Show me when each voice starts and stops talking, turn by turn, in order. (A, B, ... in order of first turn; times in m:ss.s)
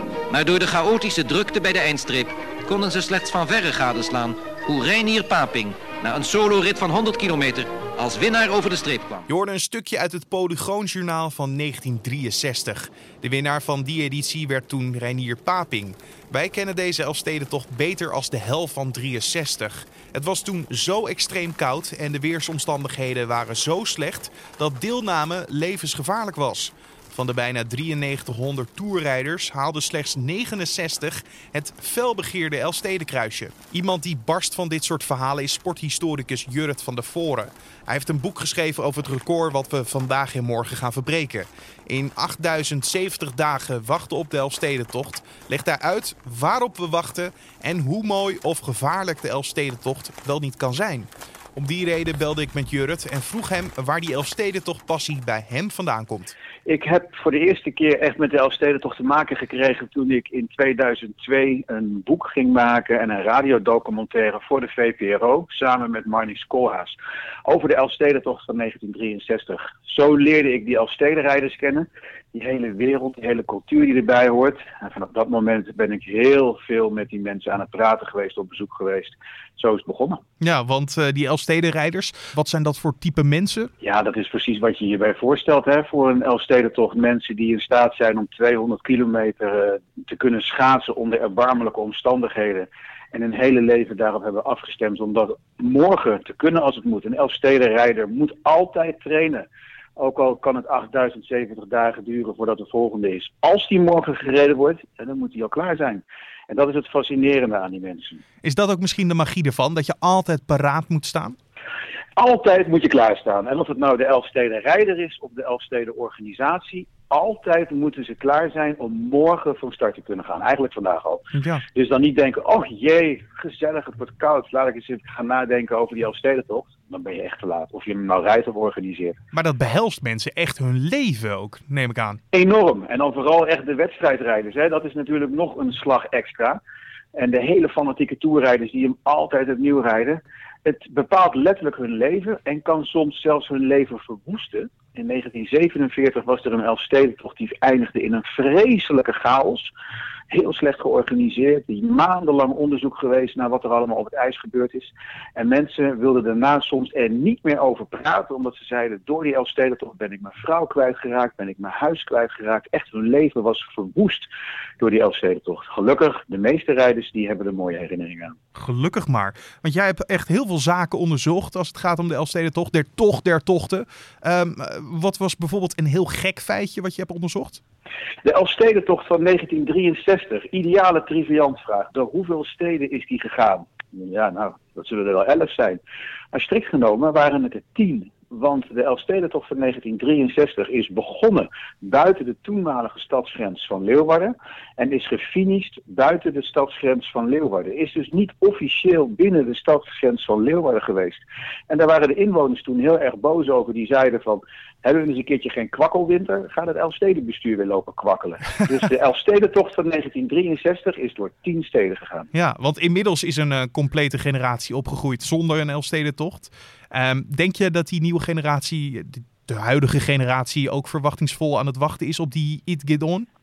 0:00.3-0:09.2 A
0:09.3-0:56.3 B
0:56.7-1:06.9 C
1:07.4-1:20.2 C
1:20.4-1:23.7 B
1:23.8-1:39.4 C
1:40.0-1:48.2 C
1:48.4-1:51.4 B
1:52.2-2:09.2 C
2:01.3-2:01.6 B
2:09.3-2:12.2 B
2:12.3-2:16.6 C
2:17.1-2:29.7 C
2:30.3-2:44.3 C
2:44.8-2:48.4 C
2:48.5-2:57.6 B
2:58.2-3:05.8 C
3:06.3-3:32.3 C
3:32.3-3:43.3 B